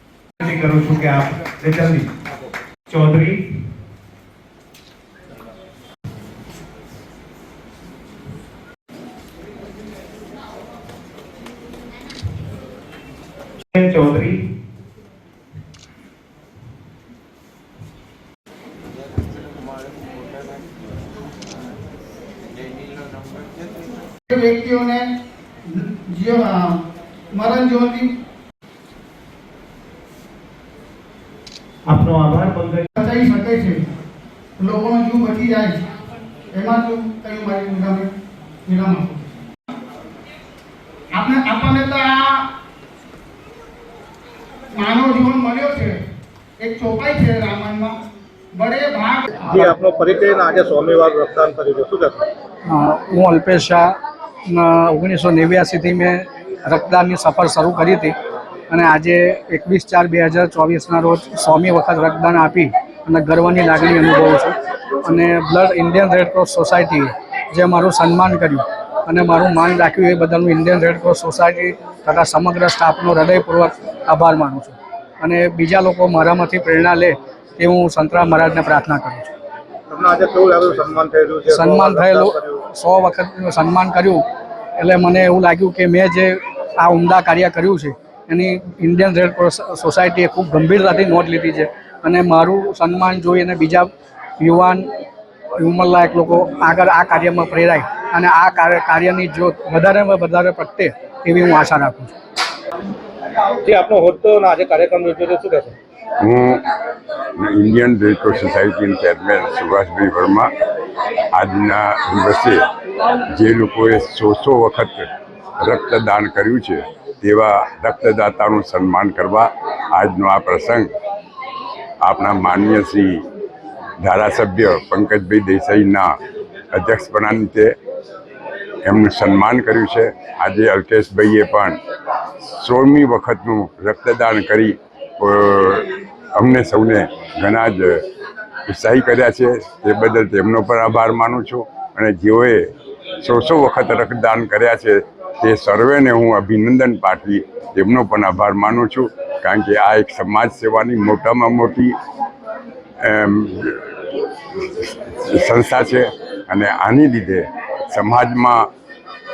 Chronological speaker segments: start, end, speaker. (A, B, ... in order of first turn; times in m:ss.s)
0:00.4-0:02.1 A
0:02.9-0:03.5 A
0:13.6-0:14.4 A
0:24.3-0:25.1 B
0:25.6-0:28.1 B
0:31.8-0:32.9 A
0:33.0-0:33.9 B
0:34.6-0:35.9 B
0:36.5-0:38.1 B
0:38.6-0:39.3 B
0:41.1-0:42.5 B
0:44.7-0:46.0 B
0:46.6-0:48.0 B
0:48.5-0:49.6 B
0:49.5-0:52.2 C
0:52.6-0:58.1 D
0:58.7-1:19.3 D
1:19.9-1:22.6 C
1:21.5-1:24.2 D
1:24.8-1:33.9 D
1:34.4-1:34.9 D
1:35.6-1:42.1 D
1:43.6-1:45.8 C
1:46.2-1:46.6 E
1:47.4-1:50.5 E
1:51.3-1:55.1 E
1:55.6-2:00.9 E
2:02.0-2:03.2 E
2:04.0-2:06.1 E
2:06.7-2:07.7 E
2:08.8-2:11.8 E
2:12.6-2:18.0 E
2:18.7-2:22.7 E
2:23.2-2:31.9 E
2:33.0-2:38.7 E